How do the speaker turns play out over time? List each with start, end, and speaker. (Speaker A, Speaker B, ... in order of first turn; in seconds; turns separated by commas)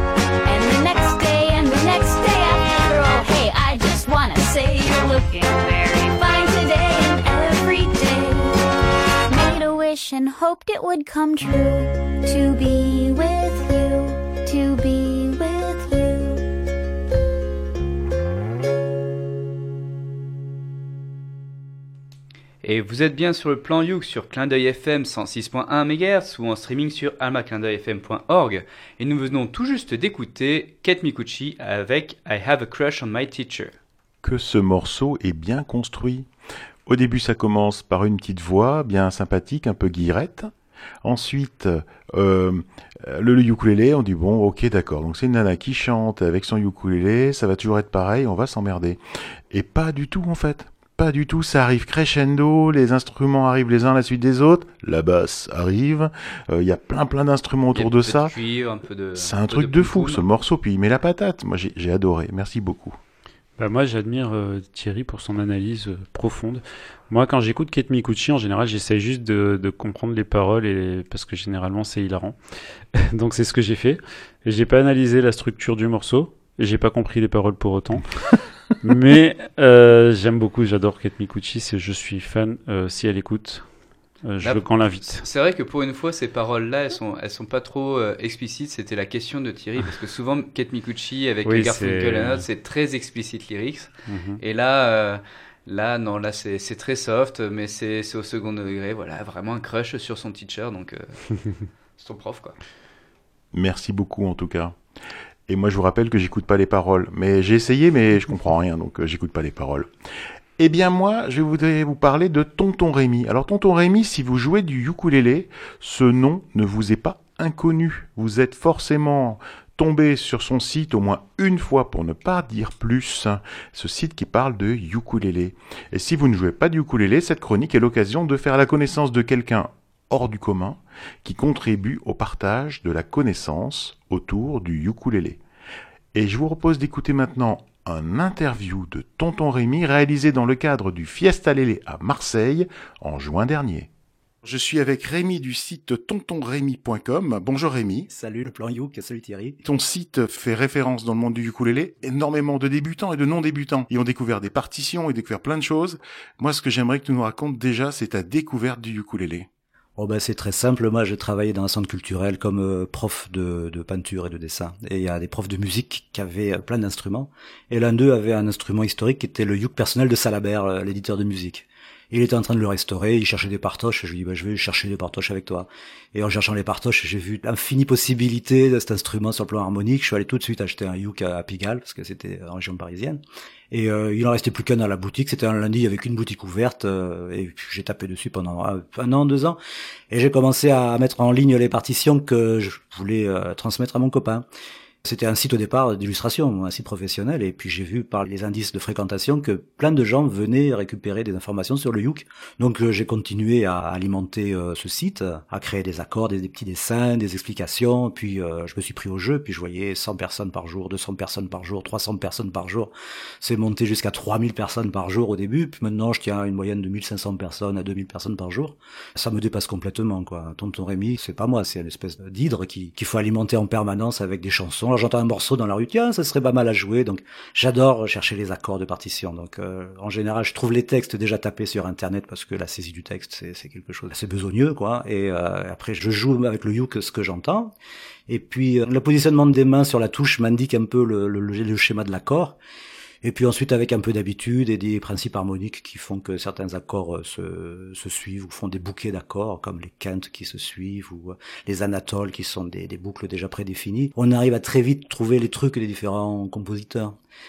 Speaker A: 0.4-8.6, Speaker A: 9.3-16.4, Speaker B: 22.6-33.7, Speaker C: 34.2-36.3, Speaker C: 36.9-40.5, Speaker C: 41.0-49.0, Speaker C: 49.5-58.3, Speaker B: 57.7-60.2, Speaker C: 59.2-63.0, Speaker D: 63.6-72.4, Speaker D: 72.9-83.7, Speaker D: 84.2-85.2, Speaker B: 84.4-101.2, Speaker D: 91.5-92.4, Speaker D: 94.1-94.4, Speaker B: 102.0-102.5, Speaker C: 103.5-104.8, Speaker C: 105.5-109.9, Speaker C: 110.6-135.4, Speaker C: 136.1-143.9, Speaker C: 144.4-148.1, Speaker E: 148.1-149.6, Speaker C: 149.6-159.5, Speaker E: 160.0-189.6, Speaker E: 190.1-194.4, Speaker E: 195.0-237.7, Speaker E: 238.3-242.6, Speaker E: 243.2-257.1